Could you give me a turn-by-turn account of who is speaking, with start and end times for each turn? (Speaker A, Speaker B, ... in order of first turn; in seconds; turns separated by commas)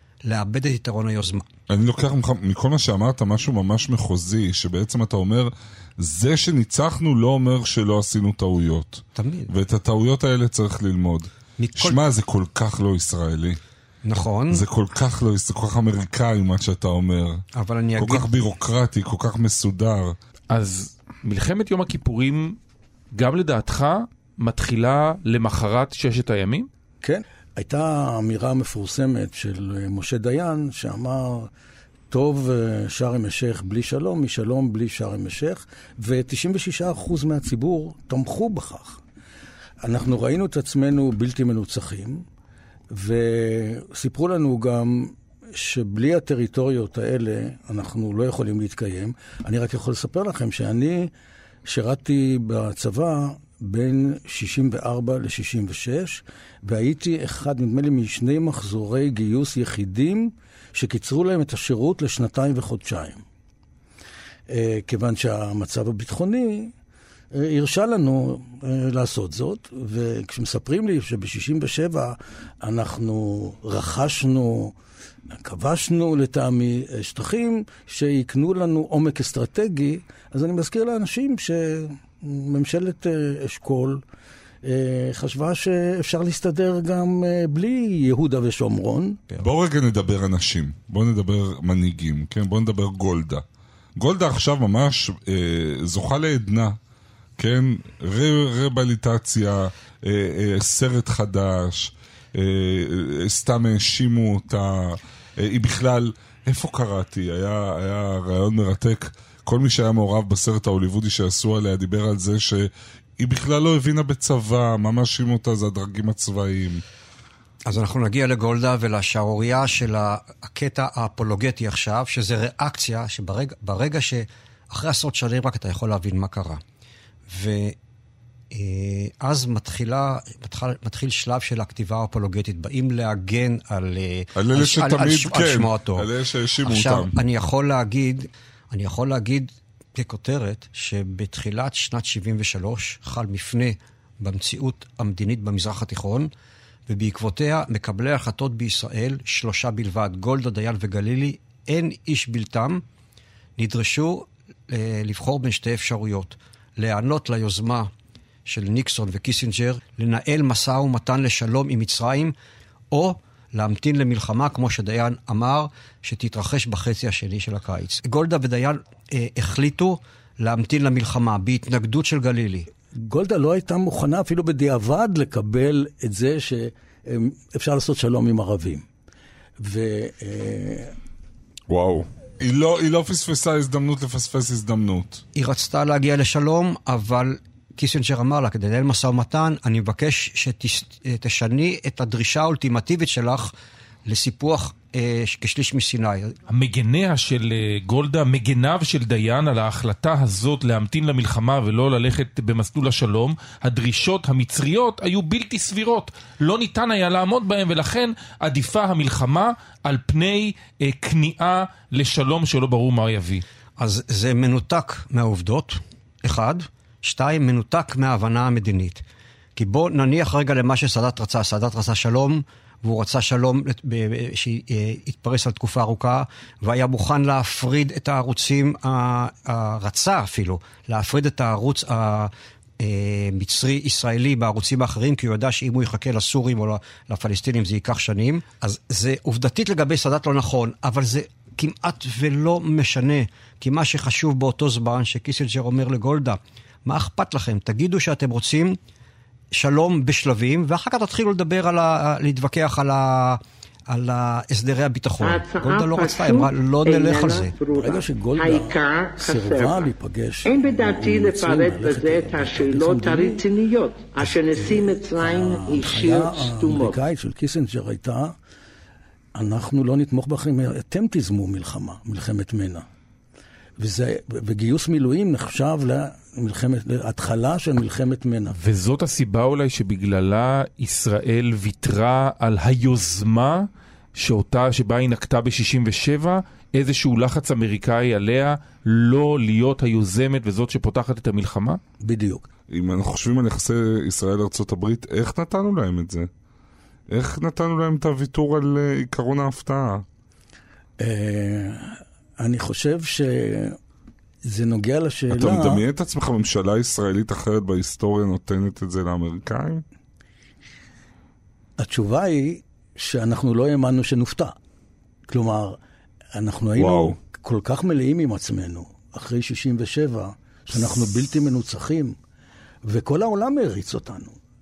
Speaker A: 0.2-1.5, Speaker B: 1.7-13.6, Speaker A: 9.2-9.5, Speaker A: 11.6-12.0, Speaker A: 14.0-14.6, Speaker B: 14.5-17.4, Speaker A: 17.5-18.3, Speaker B: 17.9-20.1, Speaker C: 20.5-22.6, Speaker C: 23.1-26.7, Speaker D: 27.0-31.5, Speaker D: 32.1-39.0, Speaker D: 39.8-42.2, Speaker D: 42.9-51.1, Speaker D: 51.6-63.2, Speaker D: 64.5-66.7, Speaker D: 67.3-74.7, Speaker D: 75.4-84.0, Speaker D: 84.6-89.2, Speaker B: 89.4-93.4, Speaker B: 94.0-96.8, Speaker B: 97.4-116.8, Speaker A: 117.7-126.6, Speaker A: 127.3-127.8, Speaker A: 128.5-136.1, Speaker B: 134.3-137.1, Speaker A: 136.6-146.3, Speaker A: 146.9-152.8, Speaker A: 153.6-157.9, Speaker A: 158.5-162.3, Speaker A: 162.9-172.7, Speaker D: 173.0-178.8, Speaker D: 179.6-180.9, Speaker B: 181.7-185.2, Speaker A: 185.3-193.5, Speaker A: 194.1-196.3, Speaker C: 196.5-213.4, Speaker A: 213.8-219.0, Speaker A: 219.6-248.8, Speaker A: 249.5-257.5, Speaker E: 255.2-259.9, Speaker D: 257.7-263.4, Speaker E: 260.4-267.0, Speaker D: 264.2-268.4, Speaker D: 269.3-272.9, Speaker D: 273.8-278.6, Speaker C: 278.5-291.8, Speaker D: 292.0-292.5, Speaker B: 292.7-296.3, Speaker B: 297.1-300.0, Speaker D: 301.0-303.8, Speaker D: 304.5-305.8, Speaker B: 305.3-309.8, Speaker D: 311.8-314.6, Speaker D: 315.3-315.8, Speaker D: 316.3-322.2, Speaker B: 316.8-317.2, Speaker B: 320.7-321.1, Speaker D: 322.9-324.4